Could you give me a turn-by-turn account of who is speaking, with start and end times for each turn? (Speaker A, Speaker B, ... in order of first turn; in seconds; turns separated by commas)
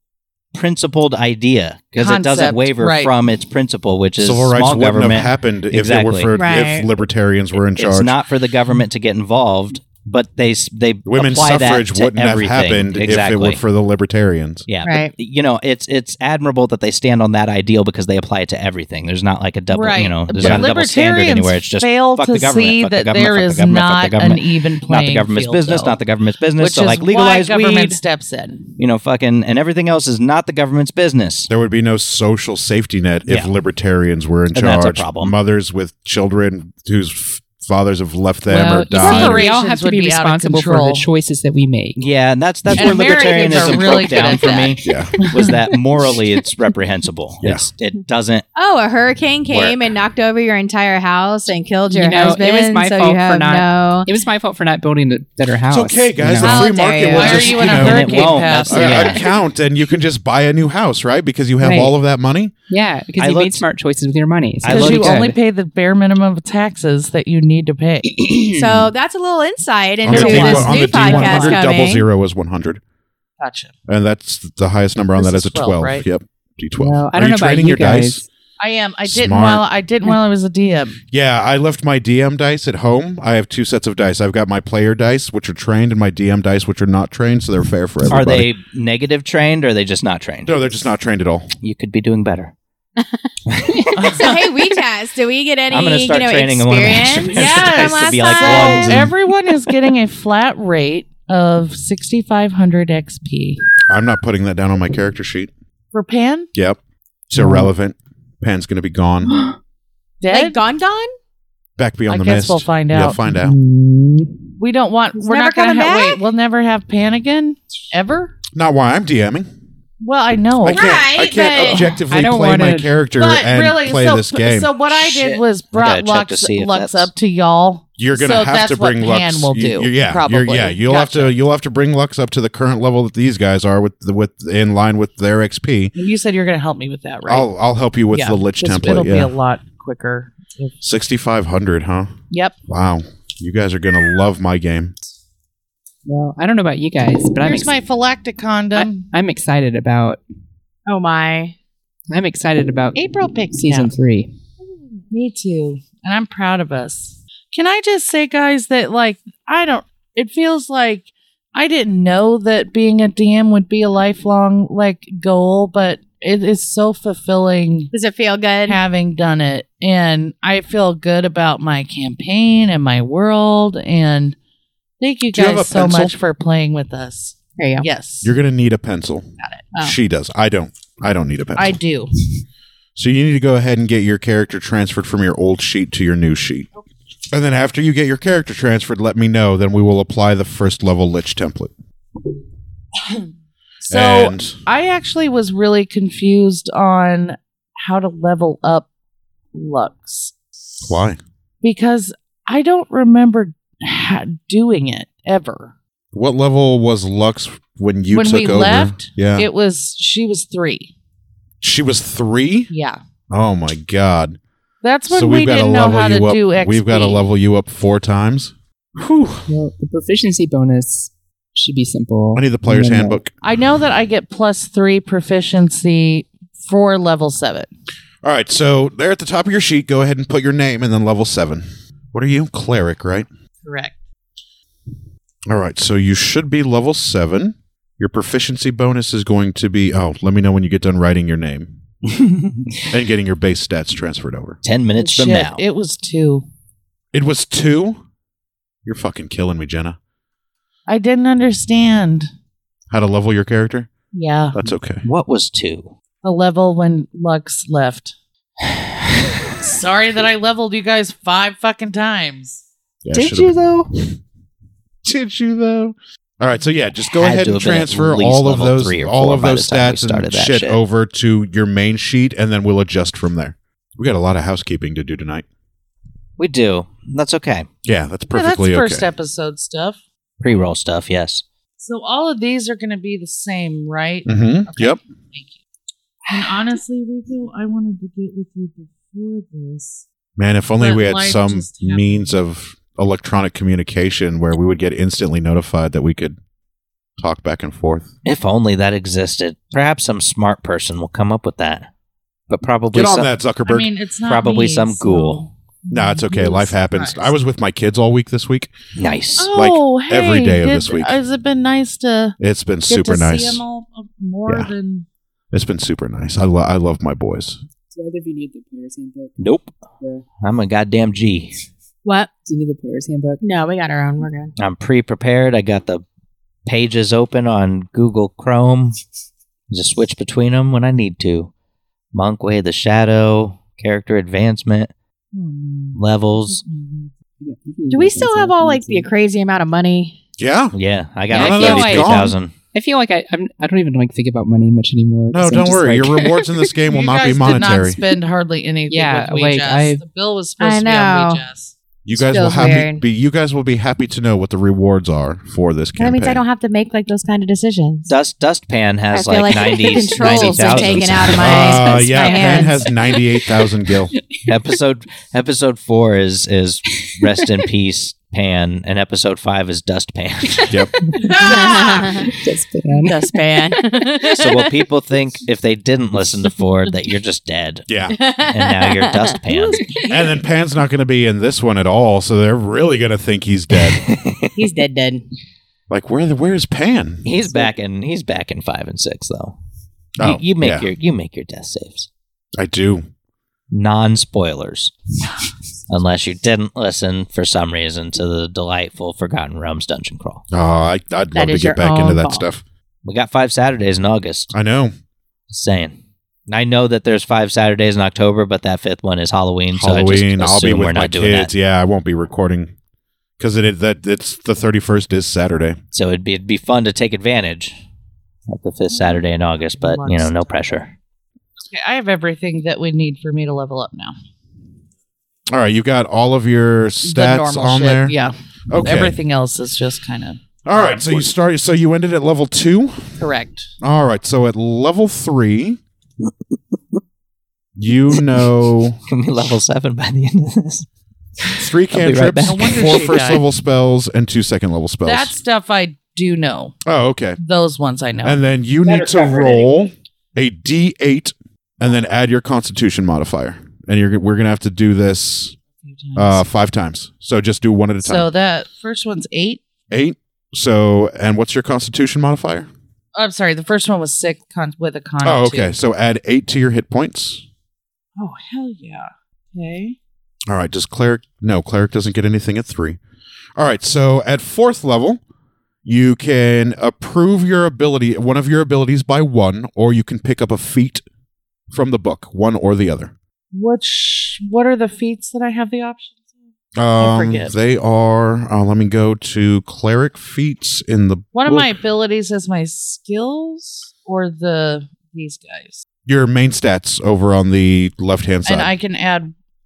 Speaker A: 0.5-6.3, Speaker B: 2.0-3.1, Speaker C: 4.2-8.2, Speaker D: 6.3-6.9, Speaker A: 7.8-13.6, Speaker C: 11.1-14.7, Speaker A: 14.7-28.0, Speaker D: 14.8-15.1, Speaker B: 19.7-26.0, Speaker C: 20.4-20.7, Speaker B: 26.6-28.7, Speaker A: 28.8-31.5, Speaker C: 31.5-39.5, Speaker A: 33.3-33.5, Speaker A: 34.5-35.4, Speaker B: 38.5-41.1, Speaker E: 38.5-42.0, Speaker A: 42.0-48.5, Speaker B: 42.8-45.6, Speaker D: 43.0-44.1, Speaker C: 44.8-45.1, Speaker D: 48.5-54.1, Speaker A: 49.5-49.9, Speaker E: 51.9-56.7, Speaker C: 55.7-62.5, Speaker B: 56.4-59.2, Speaker D: 56.5-57.7, Speaker A: 57.7-59.3, Speaker E: 61.6-62.0, Speaker E: 62.7-65.4, Speaker A: 63.2-63.6, Speaker A: 64.6-65.2, Speaker B: 64.7-68.1, Speaker E: 68.2-68.9, Speaker D: 68.4-72.1, Speaker C: 70.0-72.8, Speaker B: 70.1-71.6, Speaker B: 73.4-73.7, Speaker C: 73.9-78.2, Speaker B: 75.2-76.1, Speaker E: 76.8-78.3, Speaker B: 78.6-81.0, Speaker C: 79.1-79.6, Speaker C: 81.1-88.5, Speaker A: 88.1-90.6, Speaker C: 90.5-91.5, Speaker A: 91.6-92.5, Speaker A: 93.5-94.2, Speaker B: 94.0-94.4, Speaker D: 94.1-99.1, Speaker A: 95.7-99.1, Speaker B: 97.3-103.6, Speaker C: 103.9-105.5, Speaker B: 105.9-106.5, Speaker C: 107.3-109.4, Speaker E: 107.3-107.7, Speaker E: 109.3-109.5, Speaker B: 110.2-110.6, Speaker D: 110.3-111.1, Speaker C: 111.8-113.6, Speaker B: 112.1-113.2, Speaker E: 113.2-114.5, Speaker B: 114.6-118.4, Speaker D: 115.2-116.2, Speaker C: 118.5-119.5, Speaker B: 120.0-121.9, Speaker C: 120.6-124.7, Speaker D: 120.7-121.8, Speaker E: 121.9-122.9, Speaker B: 123.2-131.3, Speaker A: 125.2-127.1, Speaker C: 128.0-135.9, Speaker B: 135.9-137.5, Speaker C: 137.3-139.3, Speaker B: 138.1-140.8, Speaker C: 140.8-142.1, Speaker B: 142.3-142.6, Speaker C: 142.7-144.9, Speaker E: 146.1-147.7, Speaker B: 147.4-149.1, Speaker E: 148.8-150.2, Speaker D: 150.9-151.6, Speaker E: 152.1-154.3, Speaker B: 152.9-153.9, Speaker B: 155.1-167.9, Speaker D: 167.9-168.8, Speaker B: 168.7-174.4, Speaker B: 175.0-178.3, Speaker C: 175.3-176.2, Speaker D: 177.6-177.9, Speaker C: 178.2-179.3, Speaker B: 179.4-179.6, Speaker C: 179.8-181.8, Speaker B: 181.6-182.1, Speaker C: 182.9-186.7, Speaker C: 187.3-191.7, Speaker B: 193.8-198.9, Speaker C: 193.9-194.6, Speaker B: 199.5-201.0, Speaker C: 200.9-201.2, Speaker B: 201.6-205.7, Speaker C: 206.1-209.5, Speaker B: 208.1-210.9, Speaker C: 211.6-212.7, Speaker B: 212.7-213.0, Speaker C: 213.3-214.4, Speaker B: 214.8-217.2, Speaker C: 215.1-219.5, Speaker E: 219.5-223.2, Speaker C: 222.3-223.3, Speaker B: 223.4-227.7, Speaker C: 228.2-233.3, Speaker B: 233.6-233.9, Speaker C: 235.5-241.8, Speaker A: 242.2-242.6, Speaker C: 242.9-244.6, Speaker A: 244.6-245.6, Speaker B: 245.0-246.4, Speaker C: 247.1-248.0, Speaker C: 248.8-250.0, Speaker B: 250.9-252.3, Speaker C: 252.9-253.9, Speaker B: 254.1-254.6, Speaker C: 254.5-255.0, Speaker A: 255.0-255.9, Speaker B: 256.2-258.1, Speaker A: 258.7-259.6, Speaker B: 259.7-262.6, Speaker C: 263.1-264.1, Speaker A: 263.1-263.7, Speaker E: 263.3-263.9, Speaker C: 265.0-275.4, Speaker A: 267.1-270.8, Speaker A: 276.4-277.7, Speaker C: 277.9-279.1, Speaker B: 278.3-280.0, Speaker A: 280.4-281.4, Speaker B: 281.8-285.5, Speaker C: 284.3-285.0, Speaker B: 286.3-290.1, Speaker C: 290.4-296.4, Speaker B: 290.8-292.4, Speaker C: 297.2-298.1, Speaker A: 298.2-301.9, Speaker A: 302.5-303.3, Speaker C: 302.9-303.9, Speaker B: 303.7-307.3, Speaker A: 304.2-305.5, Speaker C: 305.9-308.7, Speaker A: 309.0-309.5, Speaker B: 309.4-315.1, Speaker C: 309.5-311.2, Speaker C: 312.4-313.6, Speaker C: 315.5-317.6, Speaker E: 317.9-319.4, Speaker A: 319.4-319.7, Speaker A: 320.4-321.6, Speaker D: 322.1-322.3, Speaker E: 322.4-323.4, Speaker D: 323.4-324.5, Speaker A: 324.6-326.0, Speaker A: 326.7-329.0, Speaker A: 329.7-331.5, Speaker A: 332.1-334.9, Speaker B: 335.3-337.1, Speaker A: 336.0-336.6, Speaker E: 337.4-339.1, Speaker D: 337.9-340.2, Speaker C: 340.4-340.8, Speaker A: 340.7-342.5, Speaker C: 341.3-342.4, Speaker B: 341.3-342.3, Speaker E: 342.7-346.4, Speaker C: 345.3-348.0, Speaker D: 346.2-346.5, Speaker B: 346.9-351.7, Speaker E: 348.9-350.0, Speaker D: 350.6-351.4, Speaker C: 352.1-356.4, Speaker D: 352.1-353.1, Speaker D: 356.0-358.1, Speaker A: 358.1-362.0, Speaker D: 359.1-363.1, Speaker C: 360.2-364.1, Speaker E: 362.9-363.2, Speaker E: 364.0-364.5, Speaker A: 364.5-370.9, Speaker E: 370.6-374.3, Speaker D: 371.3-372.3, Speaker D: 373.0-374.7, Speaker A: 374.4-377.9, Speaker C: 377.9-378.2, Speaker D: 378.2-380.2, Speaker A: 378.5-379.9, Speaker C: 380.1-384.1, Speaker A: 383.8-384.5, Speaker D: 384.6-385.3, Speaker C: 385.9-387.3, Speaker A: 387.2-389.6, Speaker C: 390.2-390.9, Speaker A: 390.2-392.1, Speaker C: 392.6-393.1, Speaker A: 393.7-394.9, Speaker A: 395.9-400.4, Speaker C: 400.5-402.6, Speaker D: 401.4-402.4, Speaker A: 403.1-404.5, Speaker C: 404.5-404.9, Speaker A: 405.5-411.5, Speaker C: 409.7-412.7, Speaker C: 413.4-415.8, Speaker A: 415.9-417.7, Speaker A: 418.5-420.9, Speaker B: 419.8-420.5, Speaker B: 421.6-424.1, Speaker C: 425.5-428.1, Speaker B: 427.0-431.2, Speaker C: 428.7-429.2, Speaker C: 430.6-433.2, Speaker B: 433.2-433.7, Speaker C: 433.8-435.8, Speaker C: 437.8-439.0, Speaker A: 438.1-438.5, Speaker A: 439.1-440.9, Speaker A: 441.4-443.0, Speaker C: 441.6-445.3, Speaker B: 442.4-443.4, Speaker B: 445.1-446.8, Speaker C: 446.9-447.4, Speaker B: 447.4-448.4, Speaker C: 448.2-455.6, Speaker E: 449.1-449.6, Speaker B: 455.8-456.5, Speaker C: 456.2-458.3, Speaker B: 458.0-459.6, Speaker C: 459.9-462.7, Speaker B: 463.1-465.8, Speaker C: 465.2-467.4, Speaker B: 468.2-470.0, Speaker C: 470.5-473.0, Speaker C: 473.6-475.2, Speaker C: 475.9-481.0, Speaker C: 481.7-483.1, Speaker B: 483.5-486.2, Speaker C: 486.8-491.8, Speaker B: 487.0-487.5, Speaker B: 491.3-495.9, Speaker C: 496.1-498.7, Speaker B: 498.5-499.3